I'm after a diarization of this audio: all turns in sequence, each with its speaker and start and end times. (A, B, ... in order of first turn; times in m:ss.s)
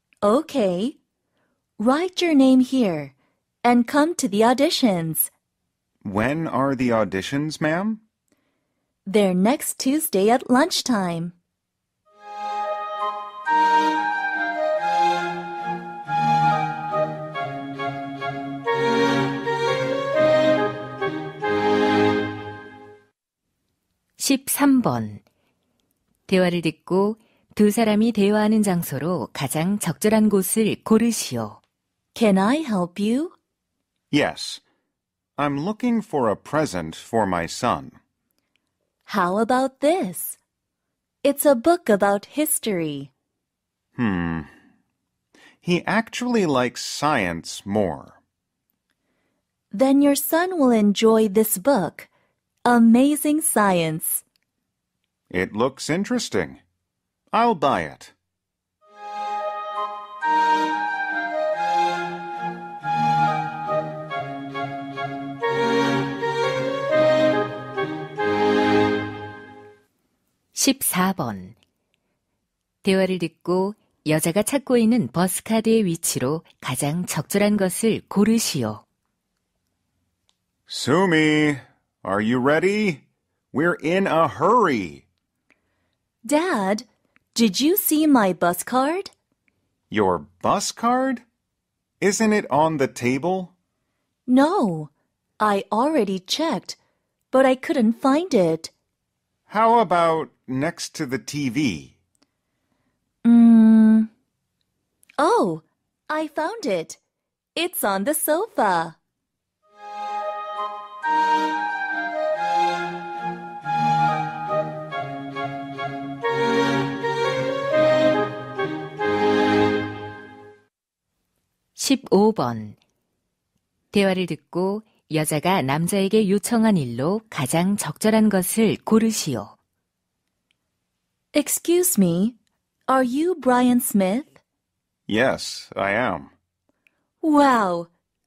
0:00.2-0:01.0 A
0:01.8-0:05.3 A
0:06.0-0:08.0 B
0:09.1-0:11.4 A
0:24.2-0:25.2 C
0:26.3-0:31.6 C
0:32.2-0:33.4 A
0:34.1-0:34.6 B
0:35.4-0:38.0 B
0:39.1-0:40.4 A
0:41.2-0:43.1 A
0:44.0-0:44.5 B
0:45.6-0:48.2 B
0:49.7-0:52.1 A
0:52.6-0:54.2 A
0:55.3-0:56.6 B
0:57.3-0:58.1 B
1:10.6-1:11.6 C
1:12.8-1:18.8 C
1:20.7-1:25.1 B
1:26.2-1:29.1 A
1:29.9-1:31.2 B
1:32.0-1:33.5 B
1:34.3-1:36.8 A
1:37.3-1:38.7 A
1:39.5-1:41.9 B
1:43.2-1:44.1 A
1:45.2-1:47.0 A
1:47.6-1:49.0 A
2:01.8-2:02.8 C
2:03.9-2:09.6 C
2:11.3-2:12.4 A
2:12.9-2:14.4 A
2:15.1-2:16.3 B
2:17.2-2:17.9 A